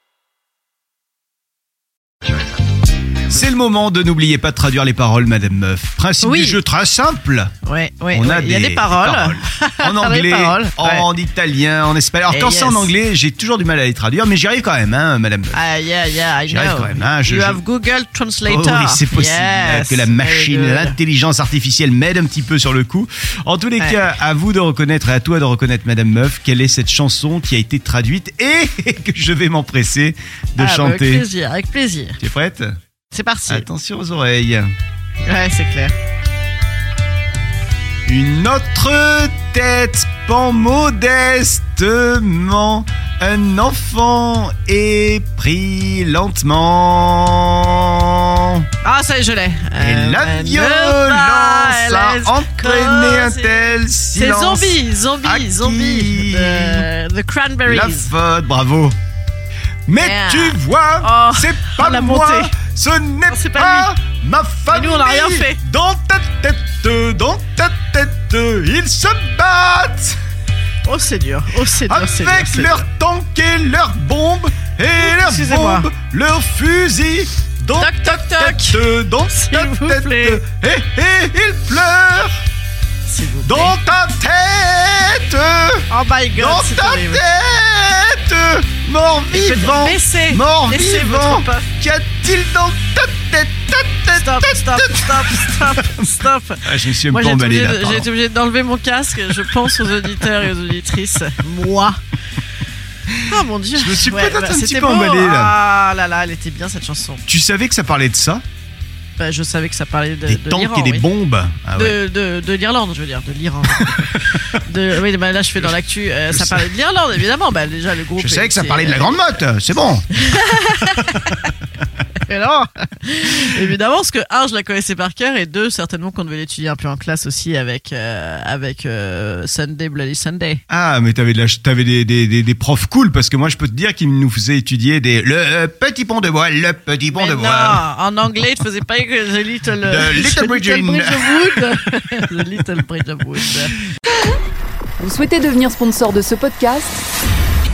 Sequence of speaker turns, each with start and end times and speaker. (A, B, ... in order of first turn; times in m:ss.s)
0:03.3-0:07.5 A
0:06.2-0:06.6 B
0:07.6-0:11.1 B
0:08.1-0:15.6 A
0:12.3-0:12.9 B
0:15.5-0:21.0 B
0:16.5-0:17.6 A
0:18.4-0:31.3 A
0:30.6-0:32.2 B
0:32.2-0:32.7 A
0:33.1-0:33.7 B
0:33.5-0:34.7 A
0:35.2-0:35.9 B
0:38.1-0:48.7 A
0:48.8-0:58.1 B
0:49.8-0:56.9 A
0:57.6-0:59.0 A
0:59.9-1:10.2 A
0:59.9-1:02.5 B
1:03.3-1:03.9 B
1:04.7-1:05.6 B
1:10.8-1:12.8 B
1:11.9-1:22.4 A
1:15.0-1:15.9 B
1:17.7-1:20.4 B
1:23.1-1:23.8 B
1:23.4-1:38.1 A
1:25.9-1:27.3 B
1:29.3-1:31.7 B
1:34.1-1:42.0 B
1:43.2-1:47.2 B
1:43.3-1:45.6 A
1:47.3-1:48.4 A
1:49.2-1:51.1 B
1:50.3-1:52.0 A
1:51.8-1:59.3 B
1:56.3-1:56.7 A
1:58.2-2:00.1 A
2:00.1-2:01.5 B
2:02.2-2:10.6 B
2:10.7-2:17.8 A
2:17.1-2:23.8 B
2:19.8-2:21.5 A
2:25.0-2:27.0 C